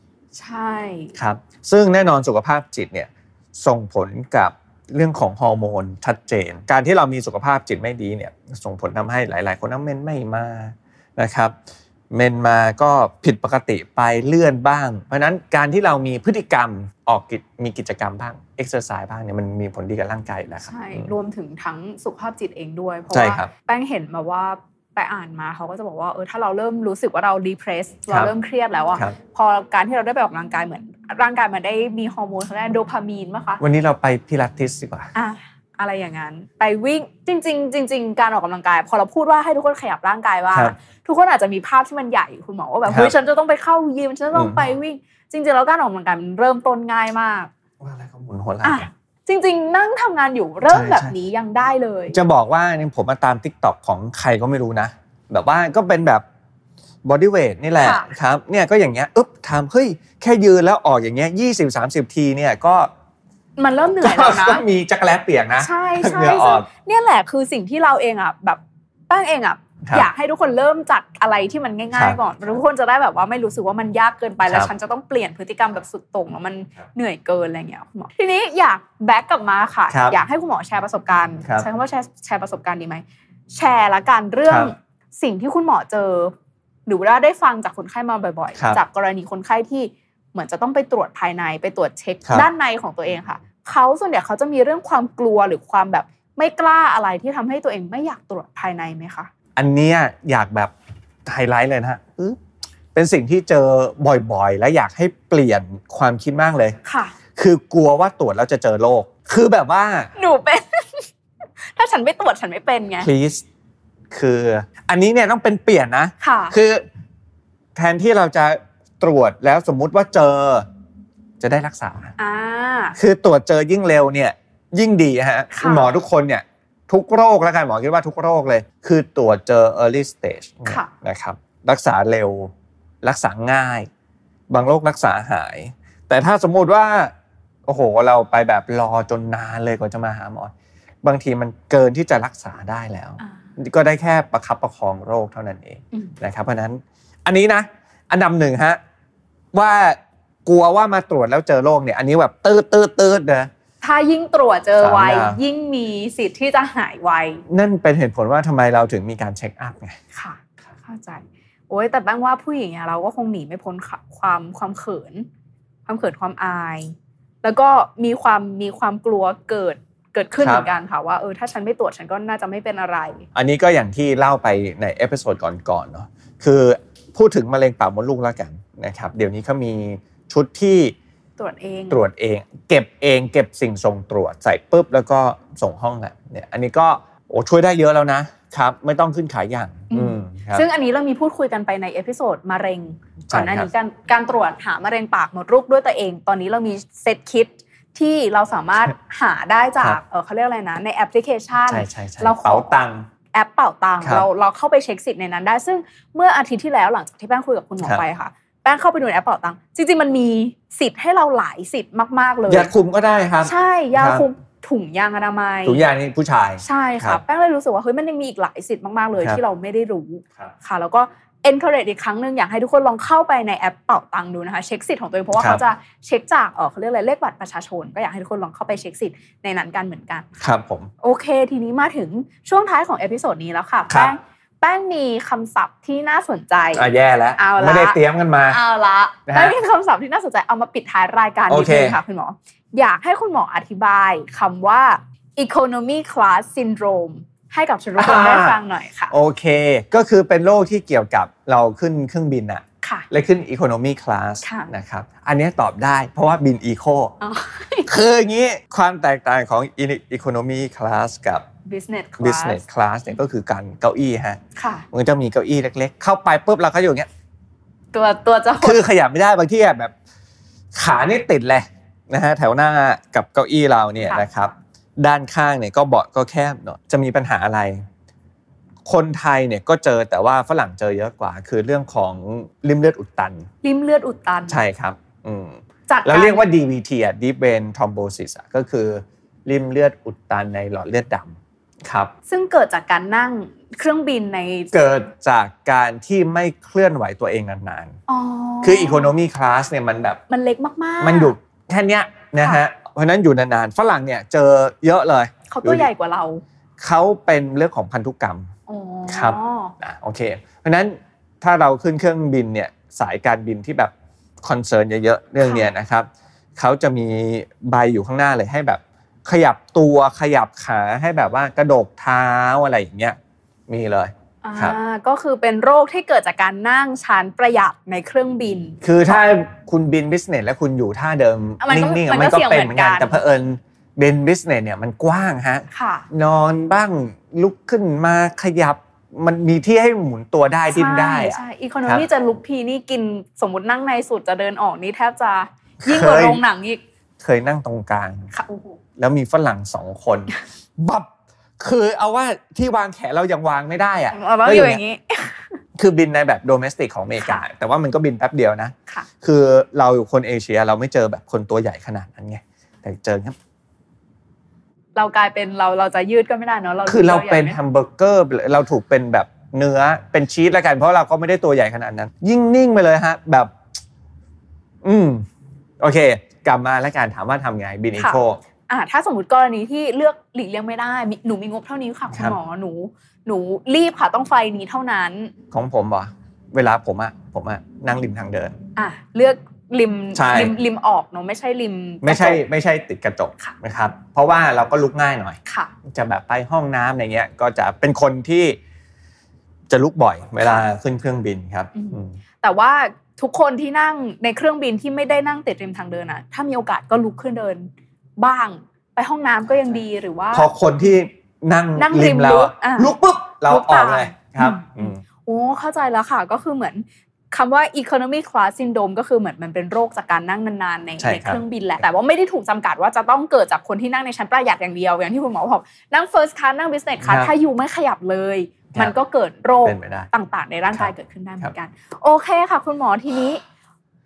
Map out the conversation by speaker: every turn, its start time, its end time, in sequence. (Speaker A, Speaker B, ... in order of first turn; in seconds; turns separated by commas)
Speaker A: 0.3-1.1, Speaker B: 1.1-11.5, Speaker B: 12.1-21.1, Speaker A: 20.7-33.6, Speaker B: 23.1-23.5, Speaker B: 33.6-35.1, Speaker A: 35.1-47.5, Speaker B: 42.9-43.1, Speaker B: 44.3-44.6, Speaker B: 47.8-48.9, Speaker A: 48.6-52.2, Speaker B: 50.7-51.1, Speaker B: 52.1-56.2, Speaker B: 57.0-62.9, Speaker A: 57.8-58.1, Speaker A: 63.6-64.7, Speaker B: 64.0-66.7, Speaker A: 65.6-86.3, Speaker B: 71.9-72.6, Speaker B: 79.9-80.2, Speaker B: 84.5-84.7, Speaker A: 86.9-99.3, Speaker B: 88.5-88.8, Speaker B: 99.6-100.7, Speaker B: 101.3-102.4, Speaker B: 102.9-106.8, Speaker A: 106.8-107.1, Speaker B: 107.4-110.1, Speaker A: 110.2-111.1, Speaker A: 111.8-113.1, Speaker B: 113.0-113.4, Speaker B: 114.1-116.8, Speaker A: 116.2-116.6, Speaker B: 117.8-120.7, Speaker B: 121.4-122.1, Speaker A: 122.2-123.0, Speaker B: 123.0-133.9, Speaker A: 125.5-125.9, Speaker B: 134.5-137.1, Speaker B: 137.7-148.8, Speaker B: 149.5-153.5, Speaker A: 153.8-157.4, Speaker B: 154.8-155.4, Speaker B: 157.5-160.0, Speaker A: 160.1-165.3, Speaker A: 165.9-173.2, Speaker B: 170.4-170.7, Speaker B: 173.3-180.9, Speaker A: 181.4-182.0, Speaker B: 181.9-190.7, Speaker A: 189.9-202.8, Speaker B: 193.3-193.7, Speaker B: 201.7-203.1, Speaker A: 203.3-212.7, Speaker B: 204.0-204.3, Speaker B: 212.5-214.3, Speaker A: 213.4-215.8, Speaker B: 215.7-217.2, Speaker A: 216.6-230.4, Speaker B: 225.4-225.6, Speaker B: 230.4-230.9, Speaker A: 231.0-238.0, Speaker B: 233.9-234.1, Speaker B: 236.7-238.6, Speaker A: 238.5-249.1, Speaker B: 239.3-239.6, Speaker B: 241.5-242.0, Speaker B: 248.0-248.6, Speaker B: 249.1-257.1, Speaker A: 252.8-253.1, Speaker A: 254.4-254.7, Speaker A: 257.2-257.9, Speaker B: 257.9-261.4, Speaker A: 261.6-262.6, Speaker B: 262.2-264.4, Speaker A: 264.6-264.9, Speaker B: 264.9-267.1, Speaker A: 267.9-268.8, Speaker B: 268.6-269.9, Speaker B: 270.8-277.8, Speaker B: 278.9-283.5, Speaker A: 283.6-284.6, Speaker B: 284.5-292.1, Speaker A: 285.9-286.5, Speaker A: 292.3-294.7, Speaker B: 294.7-298.0, Speaker A: 298.1-299.1, Speaker B: 298.6-300.2, Speaker A: 300.3-301.4, Speaker B: 301.0-305.9, Speaker A: 305.5-306.4, Speaker B: 306.8-308.5, Speaker A: 308.7-309.7, Speaker B: 309.1-323.2, Speaker A: 315.4-315.7, Speaker B: 323.7-324.8, Speaker A: 324.4-329.2, Speaker B: 328.8-342.1, Speaker A: 331.6-333.2, Speaker A: 335.7-336.1, Speaker A: 340.7-346.8, Speaker B: 345.8-346.4, Speaker B: 347.2-348.3, Speaker A: 348.3-348.8, Speaker B: 349.0-351.1, Speaker B: 351.6-354.8, Speaker A: 354.1-355.6, Speaker B: 355.8-363.4, Speaker A: 357.2-357.5, Speaker A: 364.9-367.6, Speaker B: 366.9-373.5, Speaker B: 374.8-375.2, Speaker B: 375.8-378.4, Speaker A: 378.0-385.3, Speaker B: 382.1-382.4, Speaker B: 385.5-388.6, Speaker A: 388.8-392.4, Speaker B: 390.1-390.6, Speaker B: 392.0-398.6, Speaker A: 395.5-395.7, Speaker B: 399.7-402.1, Speaker A: 400.4-400.7, Speaker A: 401.8-410.5, Speaker B: 409.5-409.8, Speaker B: 410.3-415.0, Speaker A: 411.8-412.9, Speaker A: 413.5-433.4, Speaker B: 421.0-421.4, Speaker B: 427.0-427.3, Speaker B: 429.6-430.1, Speaker B: 430.7-431.5